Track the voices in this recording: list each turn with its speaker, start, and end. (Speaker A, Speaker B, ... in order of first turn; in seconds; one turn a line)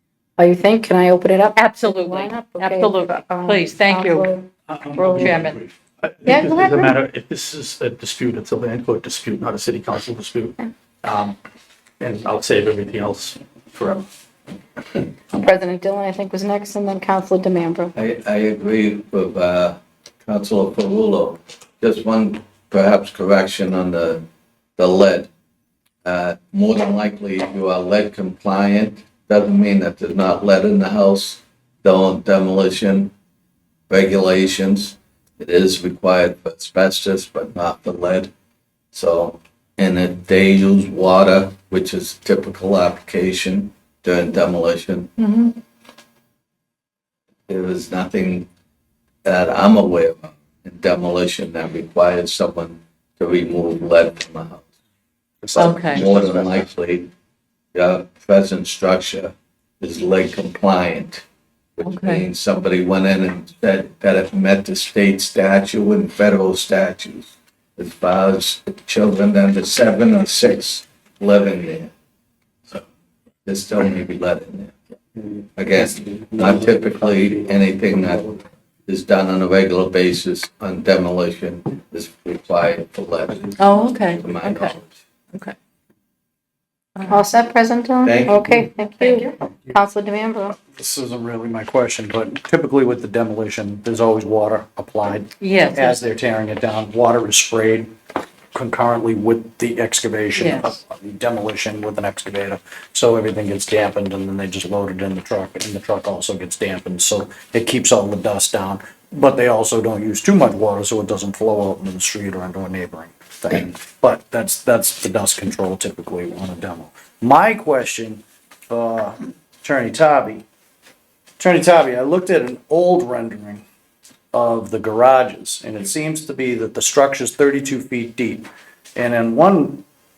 Speaker A: 0.4-5.3
Speaker B: 1.6-4.3
Speaker B: 5.1-5.6
Speaker C: 5.6-6.3
Speaker A: 6.2-7.0
Speaker C: 6.8-10.5
Speaker C: 11.0-11.3
Speaker C: 12.0-14.0
Speaker A: 15.3-17.9
Speaker D: 17.9-24.2
Speaker D: 24.8-25.3
Speaker D: 26.0-33.1
Speaker D: 33.9-38.3
Speaker D: 38.9-45.1
Speaker B: 45.2-45.6
Speaker D: 47.5-48.5
Speaker D: 49.2-54.7
Speaker D: 55.5-57.1
Speaker B: 55.6-56.0
Speaker D: 57.7-61.2
Speaker D: 61.8-71.9
Speaker B: 61.8-62.2
Speaker D: 73.5-74.8
Speaker D: 75.6-84.8
Speaker B: 83.6-84.8
Speaker B: 87.0-87.2
Speaker A: 87.1-90.6
Speaker D: 88.0-88.6
Speaker B: 88.9-89.3
Speaker E: 90.6-97.9
Speaker B: 95.4-96.0
Speaker E: 98.5-120.4
Speaker B: 100.4-100.7
Speaker E: 121.4-123.6
Speaker E: 124.3-129.8